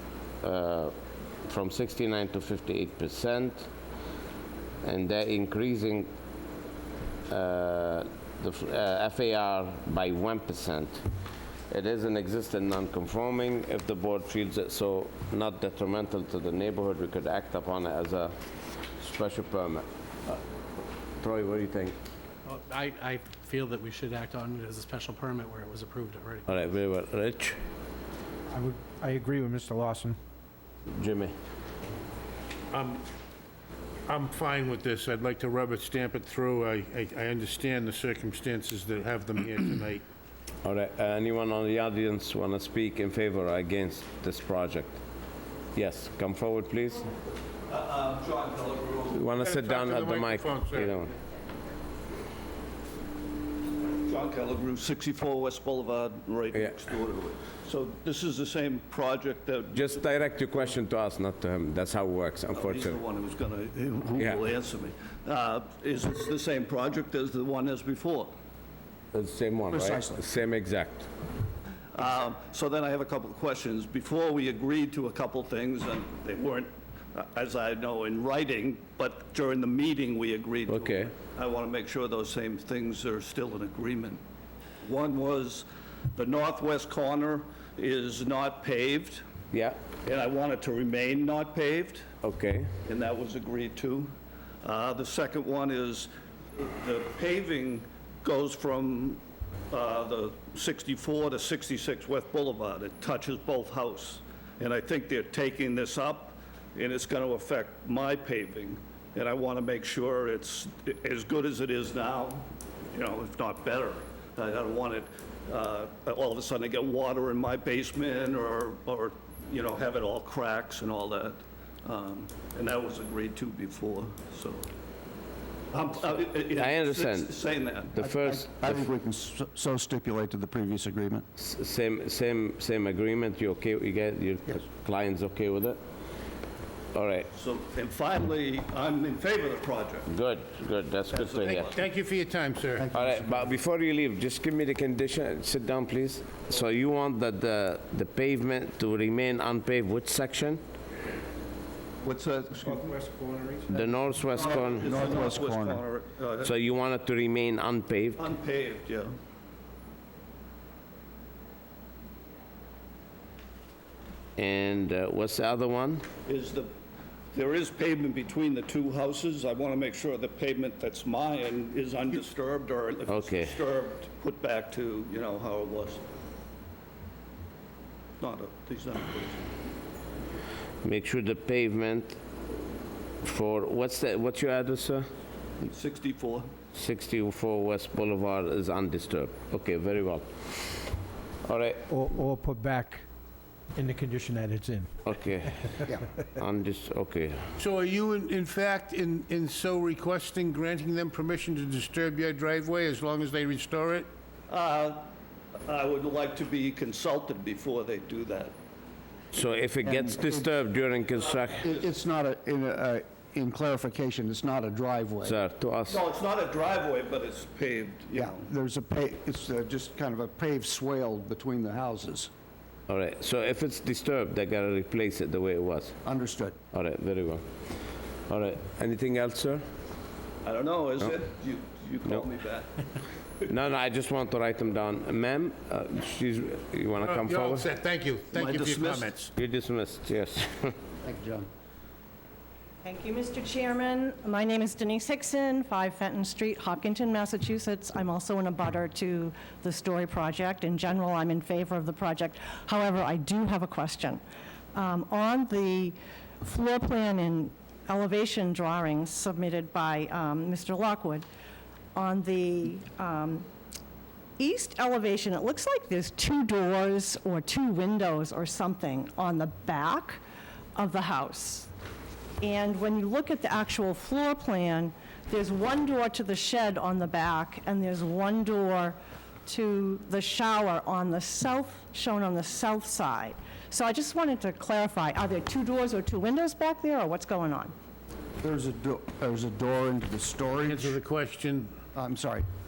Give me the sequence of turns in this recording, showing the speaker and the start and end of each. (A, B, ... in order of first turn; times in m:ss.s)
0:00.4-0:00.9 A
0:01.4-0:03.7 A
0:04.8-0:06.1 A
0:07.3-0:11.0 A
0:11.7-0:18.3 A
0:19.0-0:20.4 A
0:21.2-0:22.0 A
0:22.4-0:26.6 B
0:26.5-0:27.6 A
0:28.5-0:30.2 C
0:31.0-0:31.3 A
0:32.7-0:33.0 D
0:34.1-0:40.0 D
0:40.6-0:45.0 A
0:45.7-0:47.0 A
0:47.7-0:49.2 E
0:49.1-0:51.1 A
0:49.4-0:51.0 D
0:54.0-1:00.7 E
0:59.7-1:03.0 A
1:02.5-1:08.3 E
1:09.1-1:11.1 A
1:09.7-1:10.2 F
1:11.9-1:24.2 E
1:20.7-1:21.1 A
1:24.8-1:29.2 E
1:29.5-1:29.8 A
1:30.0-1:32.0 E
1:32.2-1:32.7 A
1:32.8-1:34.1 E
1:34.6-2:04.7 E
2:05.7-2:08.0 E
2:06.4-2:07.3 A
2:07.9-2:08.9 A
2:08.0-2:11.2 F
2:11.4-2:15.8 A
2:16.9-2:17.3 A
2:17.3-2:20.1 E
2:20.1-2:21.7 A
2:21.1-2:21.8 E
2:21.3-2:22.9 D
2:22.8-2:23.4 F
2:22.9-2:30.6 A
2:32.0-2:32.9 E
2:32.6-2:33.8 C
2:33.7-2:35.1 A
2:34.4-2:35.8 F
2:34.4-2:36.5 E
2:36.4-2:38.2 A
2:38.2-2:39.1 E
2:44.4-2:46.0 A
2:46.2-2:46.7 E
2:47.3-2:56.0 E
2:53.1-2:53.5 A
2:58.2-2:59.4 E
3:00.8-3:02.2 A
3:03.2-3:05.1 A
3:05.6-3:06.5 E
3:06.7-3:10.7 A
3:11.4-3:11.8 A
3:11.9-3:13.0 C
3:13.7-3:14.9 C
3:15.0-3:17.4 A
3:17.6-3:24.1 D
3:24.5-3:25.1 E
3:25.7-3:28.5 E
3:29.3-3:31.7 A
3:29.8-3:30.5 F
3:31.1-3:31.9 E
3:31.6-3:35.3 F
3:35.2-3:36.0 A
3:35.9-3:38.5 E
3:38.1-3:42.3 F
3:42.9-3:45.9 A
3:46.0-3:46.6 F
3:46.7-3:47.4 A
3:48.3-3:49.6 A
3:50.4-3:52.8 E
3:53.4-3:57.7 A
3:57.0-3:59.3 D
3:58.3-3:59.2 E
3:59.4-4:00.7 A
4:01.0-4:01.5 F
4:02.8-4:14.2 G
4:14.7-4:21.2 G
4:21.9-4:23.5 G
4:24.4-4:30.2 G
4:30.8-4:31.7 G
4:32.4-4:47.7 G
4:48.4-4:51.0 F
4:50.7-4:51.7 D
4:51.9-4:52.4 F